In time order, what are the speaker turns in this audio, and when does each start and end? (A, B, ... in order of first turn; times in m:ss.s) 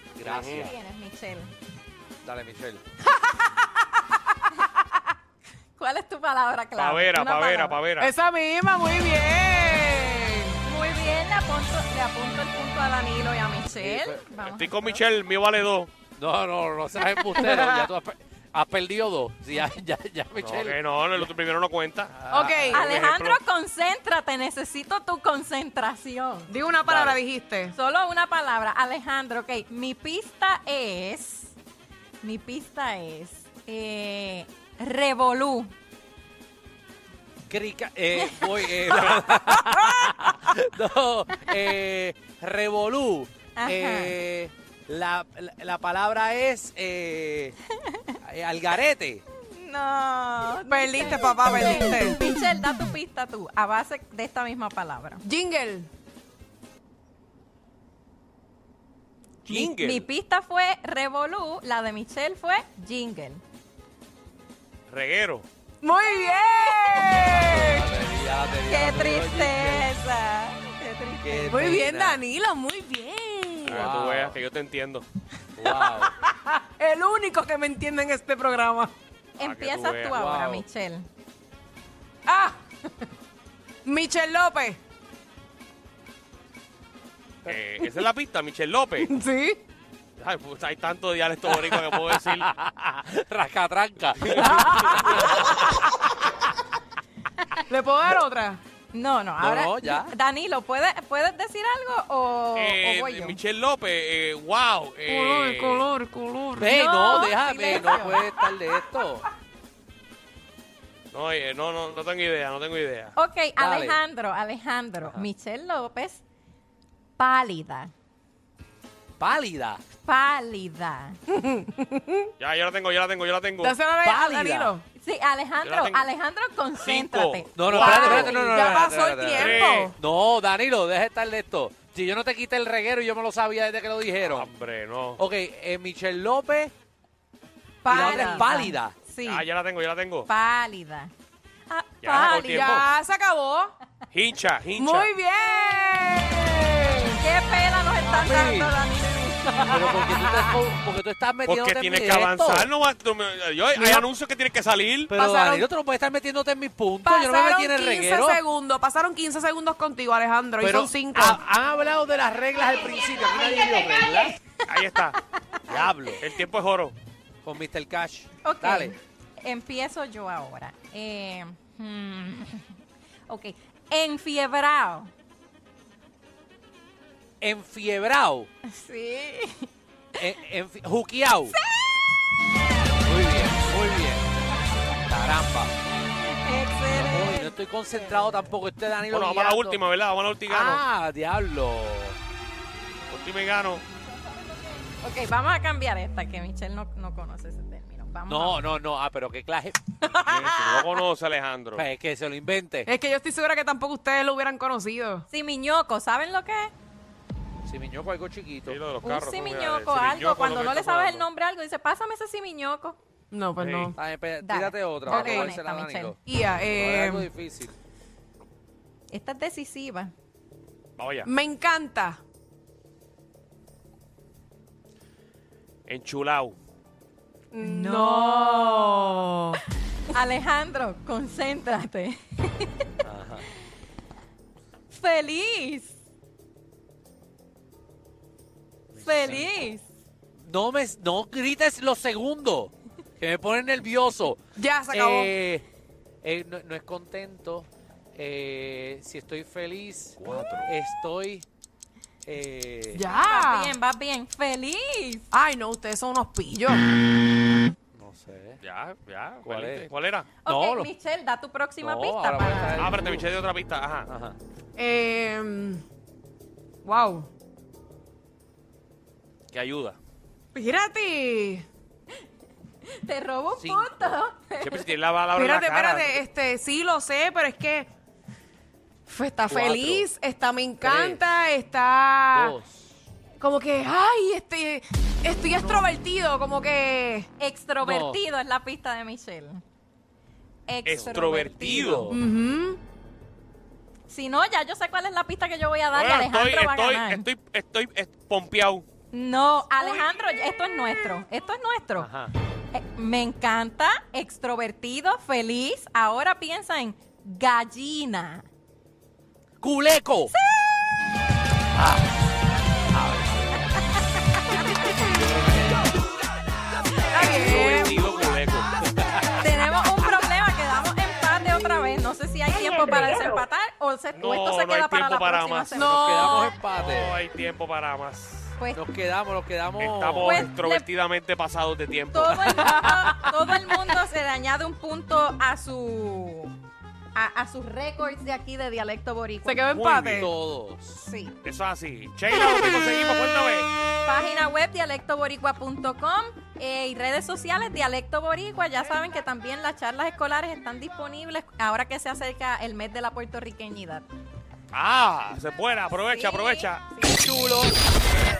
0:00.2-0:00.8 A
0:00.2-0:00.7 B
0:00.5-0:01.5 C
0:02.2-0:02.8 A
0:03.2-0:04.2 D
0:05.8-0:07.8 C
0:06.8-0:08.1 B
0:08.0-0:10.6 D
0:10.6-0:15.0 C
0:13.7-0:14.2 A
0:14.4-0:15.9 B
0:16.2-0:21.2 A
0:17.4-0:17.9 D
0:20.4-0:23.4 B
0:22.2-0:23.0 A
0:22.3-0:22.9 D
0:22.7-0:26.5 C
0:26.5-0:27.8 D
0:26.9-0:27.2 A
0:27.8-0:31.5 C
0:32.2-0:35.7 C
0:37.5-0:47.6 A
0:43.6-0:44.2 C
0:47.9-0:48.2 C
0:48.2-0:49.2 A
0:49.5-0:55.2 C
0:50.7-0:52.2 D
0:55.2-0:55.9 D
0:59.4-1:00.1 B
0:59.5-1:03.4 C
1:04.9-1:05.5 B
1:05.8-1:07.9 D
1:07.2-1:09.9 A
1:08.6-1:11.7 C
1:11.2-1:12.2 A
1:11.5-1:13.9 D
1:13.6-1:14.4 A
1:13.7-1:15.0 B
1:15.6-1:16.2 A
1:15.6-1:18.9 D
1:19.4-1:21.1 C
1:19.4-1:20.2 B
1:20.1-1:20.6 A
1:22.3-1:23.1 D
1:23.8-1:24.8 D
1:27.4-1:29.1 B
1:29.0-1:29.6 D
1:30.2-1:32.5 B
1:31.4-1:36.1 A
1:34.2-1:35.2 B
1:34.6-1:35.2 D
1:37.7-1:38.6 D
1:38.9-1:43.4 C
1:39.4-1:40.1 A
1:42.6-1:45.8 B
1:45.1-1:46.7 D
1:46.6-1:49.2 A
1:46.6-1:48.3 C
1:51.1-1:53.1 B
1:53.2-1:56.2 C
1:53.6-1:54.0 A
1:55.0-1:55.3 A
1:57.2-1:57.9 C
1:59.2-1:59.8 A
2:00.0-2:01.2 C
2:01.3-2:02.3 D
2:02.4-2:03.8 B
2:03.6-2:04.8 D
2:04.0-2:04.7 A
2:05.0-2:08.7 C
2:05.6-2:06.1 B
2:06.8-2:08.4 B
2:07.6-2:14.5 A
2:07.7-2:09.9 D
2:09.3-2:09.9 B
2:14.2-2:15.2 B
2:15.2-2:16.7 A
2:17.8-2:18.8 C
2:17.9-2:18.5 D
2:17.9-2:19.0 A
2:19.1-2:19.4 D
2:19.2-2:20.3 B
2:20.3-2:21.1 C
2:21.7-2:22.8 C
2:22.0-2:22.9 B
2:22.5-2:23.8 D
2:24.1-2:25.1 B
2:24.8-2:27.2 D
2:27.2-2:30.5 C
2:28.0-2:28.7 A
2:29.6-2:32.7 A
2:31.5-2:35.1 B
2:33.8-2:34.1 A
2:35.1-2:38.4 A
2:35.2-2:35.7 D
2:37.0-2:41.4 D
2:40.6-2:44.4 A
2:44.7-2:45.2 B
2:45.7-2:46.2 A
2:45.8-2:47.0 B
2:47.4-2:49.0 A
2:48.4-2:55.1 C
2:57.4-2:58.5 A
2:58.7-2:59.7 C
3:00.2-3:01.6 A
3:01.5-3:02.0 C
3:03.0-3:04.2 A
3:05.0-3:05.7 A
3:05.9-3:07.5 C
3:06.9-3:09.8 A
3:09.1-3:10.8 B
3:10.5-3:12.2 A
3:13.1-3:13.8 B
3:15.0-3:18.6 C
3:18.3-3:20.6 A
3:20.2-3:21.8 B
3:20.6-3:20.9 D
3:21.8-3:22.9 A
3:22.9-3:25.2 D
3:25.3-3:26.7 C
3:27.6-3:28.8 A
3:28.6-3:31.3 B
3:29.0-3:33.0 C
3:33.3-3:33.9 D
3:33.6-3:33.9 B
3:33.9-3:36.2 A
3:34.4-3:36.2 C
3:35.1-3:35.5 D
3:36.3-3:37.3 D
3:36.7-3:37.7 A
3:39.1-3:40.1 C
3:41.0-3:41.3 B
3:41.2-3:42.2 D
3:45.9-3:46.6 B
3:47.5-3:49.6 D
3:47.6-3:49.1 C
3:50.1-3:52.9 C
3:53.0-3:53.5 A
3:54.9-3:56.0 C
3:58.9-3:59.7 A
3:59.0-3:59.8 C
4:00.4-4:04.4 A
4:04.6-4:05.3 D
4:04.9-4:05.6 A
4:06.2-4:11.5 A
4:10.2-4:10.7 B
4:12.2-4:13.0 A
4:13.0-4:13.8 D
4:13.1-4:15.3 C
4:15.3-4:16.8 D
4:18.0-4:18.6 A
4:18.6-4:20.3 B
4:19.4-4:19.9 A
4:20.4-4:22.9 C
4:20.5-4:20.9 A
4:21.8-4:23.3 A
4:22.8-4:24.1 B
4:24.1-4:24.4 A
4:24.8-4:25.8 D
4:26.8-4:27.3 D
4:29.5-4:30.0 B
4:30.6-4:31.7 D
4:32.9-4:34.9 C
4:33.6-4:34.2 A
4:34.6-4:36.2 B
4:35.4-4:37.9 D
4:39.1-4:42.6 D
4:39.5-4:40.1 A
4:40.8-4:41.2 A
4:42.3-4:42.9 A
4:43.4-4:47.3 D
4:47.4-4:49.6 C
4:47.8-4:48.2 A
4:50.7-4:52.2 C
4:50.8-4:52.2 B
4:52.1-4:52.8 D
4:54.1-4:57.3 C
4:55.9-4:58.9 B
4:59.1-5:02.1 C
5:02.0-5:02.3 A
5:02.7-5:08.5 C
5:09.6-5:10.3 A
5:12.9-5:13.6 A
5:15.4-5:15.8 A
5:17.1-5:18.0 D
5:17.2-5:18.7 B
5:17.3-5:17.6 C
5:18.9-5:19.4 A
5:19.3-5:26.3 C
5:22.6-5:23.2 D
5:24.2-5:25.8 B
5:25.7-5:27.2 A
5:25.8-5:26.6 D
5:26.6-5:28.5 B
5:28.8-5:30.5 A
5:29.8-5:32.5 B
5:30.2-5:30.9 C
5:32.1-5:36.6 C
5:32.6-5:34.0 D
5:37.2-5:39.7 C
5:39.4-5:40.3 D
5:39.7-5:40.3 B
5:40.0-5:41.0 A
5:41.0-5:41.4 C
5:41.4-5:43.7 B
5:44.0-5:54.1 C
5:54.7-5:57.0 B
5:56.0-5:57.7 C